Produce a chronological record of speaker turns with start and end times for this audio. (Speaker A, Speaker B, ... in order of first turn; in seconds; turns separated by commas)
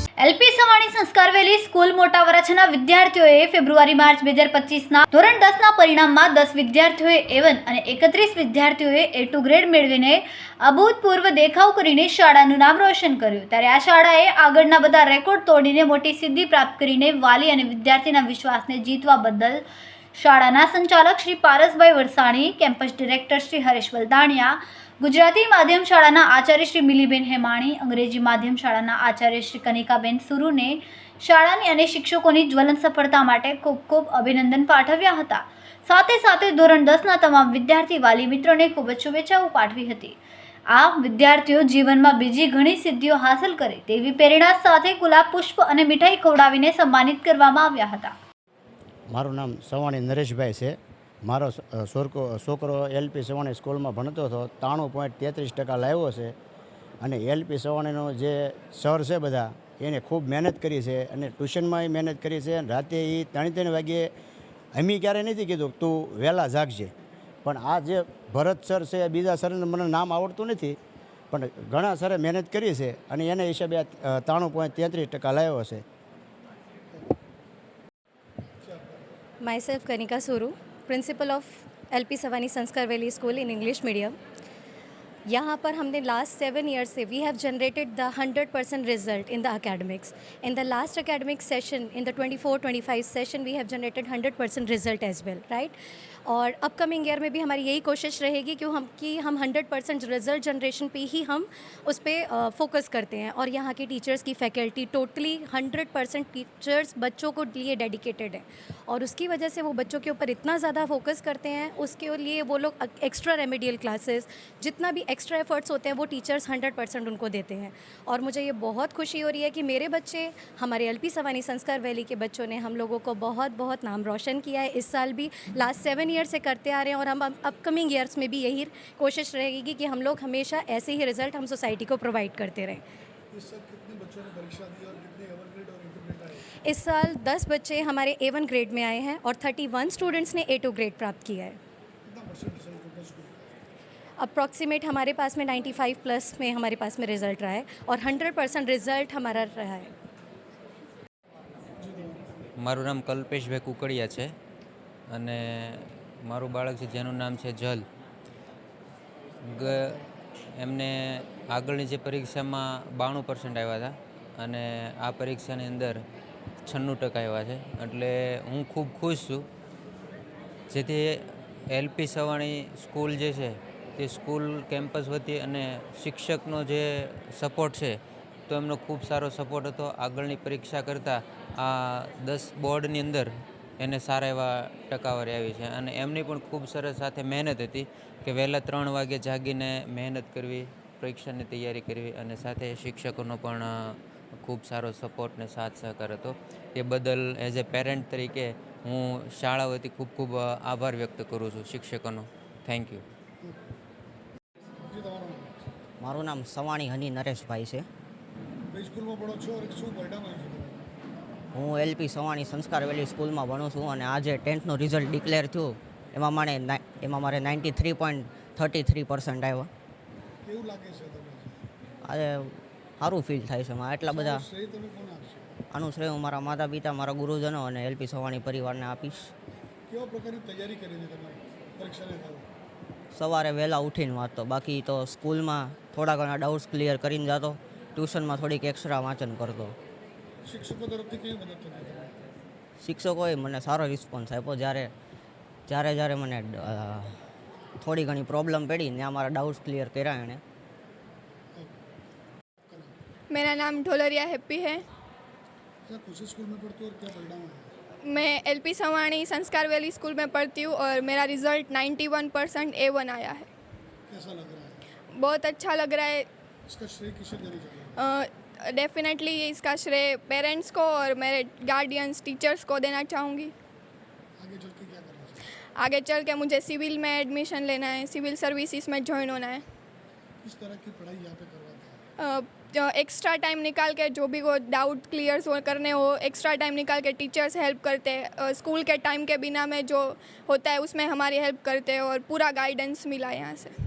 Speaker A: 0.2-19.6, Speaker A: 20.2-40.2, Speaker A: 40.7-48.1, Speaker B: 49.1-56.3, Speaker B: 57.0-64.1, Speaker B: 64.8-66.9, Speaker B: 67.5-70.8, Speaker B: 71.3-75.8, Speaker C: 78.4-79.1, Speaker D: 79.4-84.2, Speaker D: 85.3-95.8, Speaker D: 96.3-132.8, Speaker C: 133.3-136.4, Speaker D: 136.6-141.6, Speaker C: 142.1-143.5, Speaker D: 144.2-149.9, Speaker C: 151.8-152.2, Speaker E: 152.6-154.3, Speaker E: 155.1-157.9, Speaker E: 159.4-159.9, Speaker C: 159.6-160.0, Speaker E: 160.6-166.0, Speaker E: 166.7-169.4, Speaker E: 170.7-178.0, Speaker E: 178.5-203.0, Speaker C: 204.8-205.6, Speaker F: 206.0-207.9, Speaker C: 208.7-210.9, Speaker F: 211.5-219.7, Speaker C: 220.4-221.6, Speaker F: 222.0-224.4, Speaker C: 224.0-225.4, Speaker F: 225.7-229.3, Speaker C: 229.9-232.5, Speaker F: 233.1-239.8, Speaker C: 240.4-242.1, Speaker F: 242.8-244.9, Speaker F: 245.7-247.2, Speaker F: 247.8-250.4, Speaker C: 252.7-253.0, Speaker G: 253.3-254.8, Speaker C: 255.9-257.7, Speaker G: 258.1-263.5, Speaker C: 264.1-264.9, Speaker G: 265.1-266.3, Speaker C: 266.7-268.0, Speaker G: 268.0-273.5, Speaker C: 274.4-275.4, Speaker G: 275.8-279.6, Speaker C: 280.4-282.0, Speaker G: 282.2-293.7